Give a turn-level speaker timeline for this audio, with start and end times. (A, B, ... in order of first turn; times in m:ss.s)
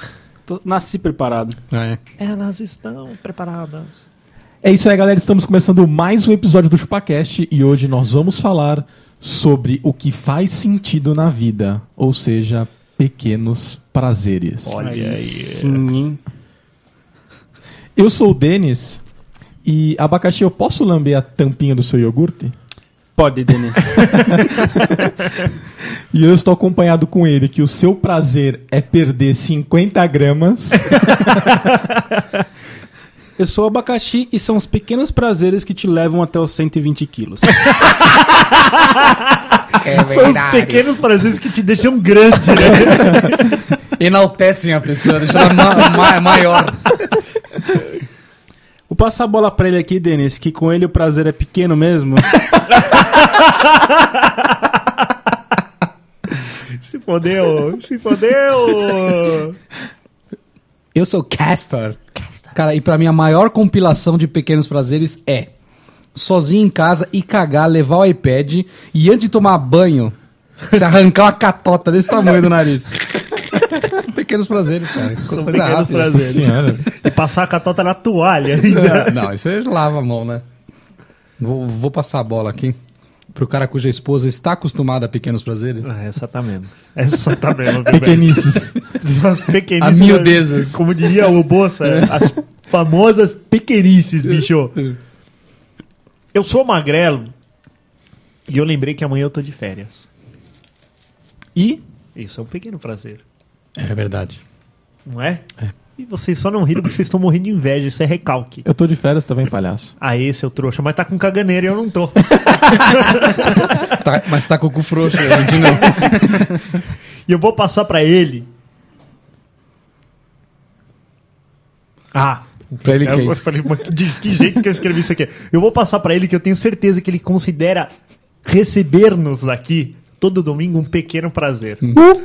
0:00.4-0:01.6 A
0:01.7-0:02.0 B
0:02.2-0:04.0 C
0:04.6-0:14.8 D
0:14.6-0:15.8 C
0:14.8-0:16.2 A
0:18.0-0:19.0 D
0:19.6-0:22.5 D
0:23.2-0:24.2 A
0:24.0-0:25.3 D
0:26.1-0:31.3 D
0:31.2-0:32.2 C
0:33.4-0:37.8 A
0:37.8-0:43.6 C
0:39.8-0:40.9 B
0:44.0-0:47.0 B
0:48.9-0:53.0 A
0:52.9-0:55.0 C
0:56.8-0:59.6 C
1:00.9-1:02.0 B
1:02.2-1:02.5 C
1:02.5-1:05.5 B
1:06.1-1:10.1 B
1:10.7-1:13.0 B
1:13.5-1:16.2 B
1:15.2-1:19.2 C
1:16.0-1:16.8 D
1:18.7-1:20.4 B
1:21.4-1:22.8 B
1:23.3-1:25.9 B
1:25.8-1:34.8 C
1:27.8-1:28.7 D
1:29.8-1:30.8 B
1:31.8-1:32.2 B
1:36.3-1:37.3 C
1:38.5-1:40.0 C
1:42.1-1:43.2 C
1:43.8-1:44.4 B
1:45.0-1:48.6 C
1:48.6-1:49.9 D
1:50.0-1:54.0 C
1:53.8-1:56.6 B
1:55.2-1:58.5 C
2:02.1-2:07.9 C
2:02.8-2:03.4 B
2:08.4-2:12.0 C